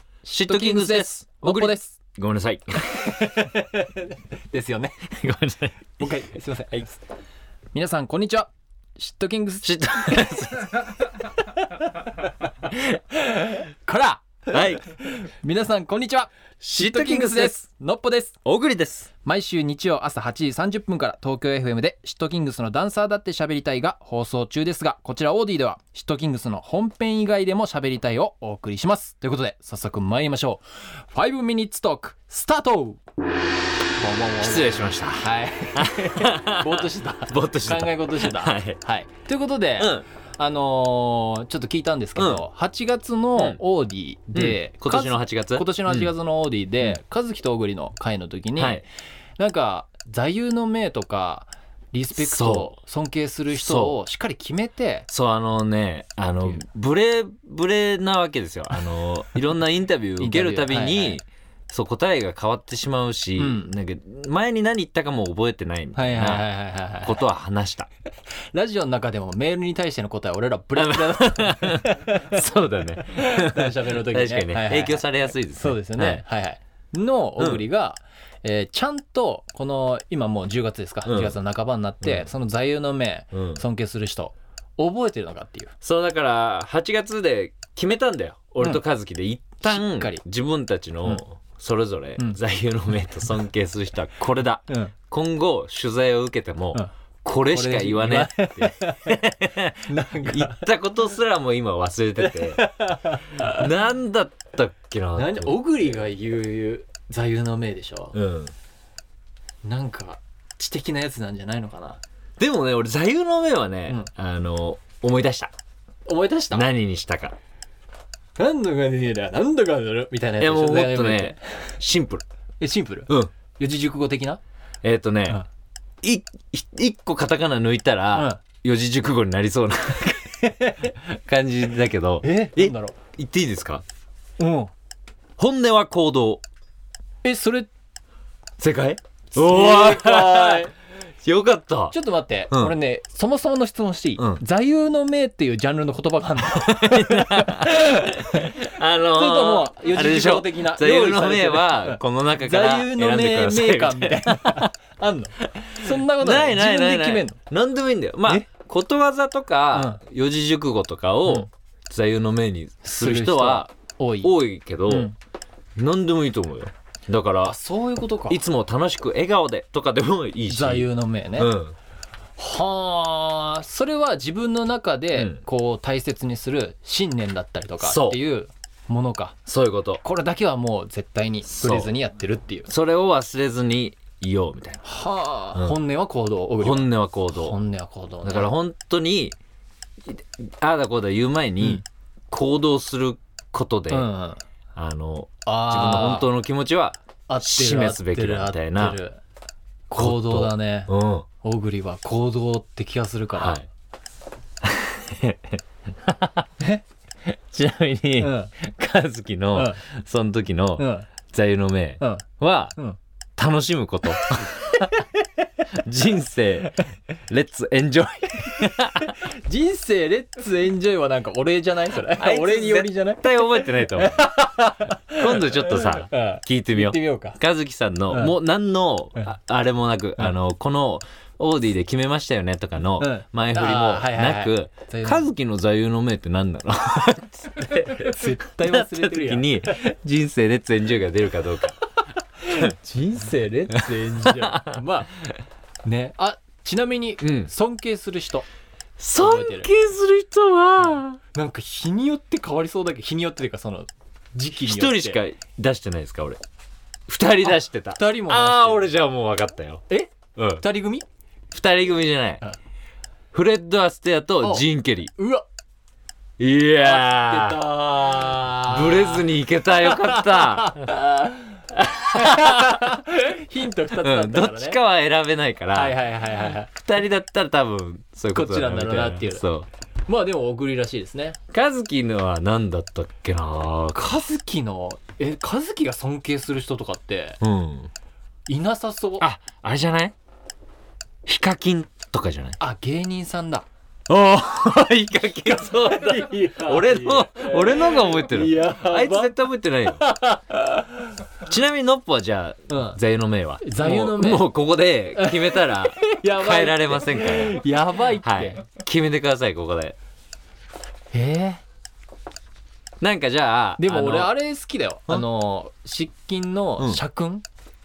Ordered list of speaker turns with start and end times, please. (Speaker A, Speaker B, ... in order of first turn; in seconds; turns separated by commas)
Speaker A: 0.2-3.2, Speaker B: 0.4-2.0, Speaker B: 3.0-5.0, Speaker A: 5.1-6.2, Speaker B: 6.0-7.0, Speaker B: 7.7-10.3, Speaker A: 9.6-10.9, Speaker B: 13.1-18.4, Speaker A: 14.5-14.8, Speaker A: 16.6-17.6, Speaker A: 18.4-19.1, Speaker B: 19.2-33.0, Speaker B: 34.0-48.9, Speaker A: 34.4-38.8, Speaker A: 39.8-40.0, Speaker A: 42.2-42.4, Speaker A: 44.3-46.1, Speaker A: 48.6-48.8, Speaker B: 49.4-55.1, Speaker A: 52.2-52.7, Speaker A: 53.5-54.0, Speaker A: 55.1-66.5, Speaker B: 60.2-61.2, Speaker B: 63.4-63.7, Speaker B: 66.0-67.2, Speaker A: 67.0-67.9, Speaker B: 68.5-72.4, Speaker A: 70.8-76.2, Speaker B: 73.1-85.7, Speaker A: 77.4-77.6, Speaker A: 81.0-81.4, Speaker A: 82.0-82.3, Speaker A: 83.3-83.6, Speaker A: 85.8-102.7, Speaker B: 89.6-90.2, Speaker B: 97.5-99.2, Speaker B: 99.9-100.7, Speaker B: 102.2-103.7, Speaker A: 103.3-105.6, Speaker B: 105.2-108.2, Speaker A: 108.1-108.5, Speaker B: 109.6-112.0, Speaker A: 112.4-115.5, Speaker B: 116.1-116.7, Speaker A: 116.5-117.4, Speaker B: 118.4-121.8, Speaker A: 120.4-122.2, Speaker B: 122.6-124.4, Speaker A: 124.8-125.4, Speaker A: 126.0-130.4, Speaker B: 128.1-128.4, Speaker B: 130.4-131.0, Speaker A: 131.0-133.8, Speaker B: 132.2-133.0, Speaker B: 134.4-134.7, Speaker A: 135.4-136.4, Speaker B: 137.2-137.7, Speaker A: 138.6-142.0, Speaker B: 139.3-140.7, Speaker B: 141.9-157.4, Speaker A: 142.5-142.8, Speaker A: 144.2-144.4, Speaker A: 146.4-154.7, Speaker A: 155.4-165.1, Speaker B: 159.7-160.0, Speaker B: 162.8-164.3, Speaker B: 164.9-165.1, Speaker A: 165.8-167.6, Speaker B: 167.4-168.4, Speaker A: 168.3-171.8, Speaker B: 170.5-171.5, Speaker B: 172.4-179.4, Speaker A: 175.2-175.4, Speaker A: 177.8-178.2, Speaker A: 179.5-180.0, Speaker B: 180.0-182.7, Speaker A: 181.5-181.9, Speaker A: 182.7-184.8, Speaker B: 184.8-188.5, Speaker A: 186.6-187.6, Speaker A: 188.2-189.4, Speaker A: 190.1-194.1, Speaker B: 193.9-194.4, Speaker A: 194.8-199.0, Speaker B: 195.4-196.3, Speaker B: 197.3-199.2, Speaker B: 199.9-203.6, Speaker A: 199.9-201.3, Speaker A: 203.4-203.7, Speaker A: 204.6-206.5, Speaker A: 207.3-212.8, Speaker B: 208.2-208.5, Speaker B: 209.5-209.8, Speaker B: 210.8-211.1, Speaker B: 212.0-212.3, Speaker A: 213.4-215.0, Speaker A: 215.8-219.1, Speaker B: 219.0-227.4, Speaker A: 222.0-224.3, Speaker A: 225.1-241.8, Speaker B: 228.1-228.3, Speaker B: 233.0-235.3, Speaker B: 237.6-239.7, Speaker B: 242.0-245.1, Speaker A: 244.2-244.8, Speaker B: 245.8-248.5, Speaker A: 247.2-247.5, Speaker A: 249.0-251.2, Speaker B: 249.2-249.7, Speaker B: 251.3-255.2, Speaker A: 254.5-256.4, Speaker A: 257.1-259.9, Speaker B: 257.4-258.9, Speaker B: 259.9-261.1, Speaker A: 260.4-260.6, Speaker A: 261.5-262.4, Speaker A: 263.3-265.1, Speaker B: 264.4-265.4, Speaker A: 266.4-270.9, Speaker B: 266.8-269.3, Speaker B: 269.8-274.8, Speaker A: 271.8-272.9, Speaker A: 274.0-276.0, Speaker B: 275.7-276.7, Speaker A: 276.7-279.7, Speaker B: 278.3-279.4, Speaker B: 280.1-281.4, Speaker A: 281.5-284.2, Speaker B: 284.0-287.4, Speaker A: 287.4-287.9, Speaker B: 288.5-289.3, Speaker A: 289.2-290.1, Speaker A: 291.3-292.6, Speaker B: 292.6-293.7, Speaker A: 294.1-300.0, Speaker B: 295.3-299.3, Speaker B: 299.9-301.1, Speaker A: 301.4-310.0, Speaker B: 302.7-303.0, Speaker B: 303.6-304.4, Speaker B: 305.2-308.6, Speaker B: 311.1-311.6, Speaker A: 313.0-314.3, Speaker B: 313.8-317.4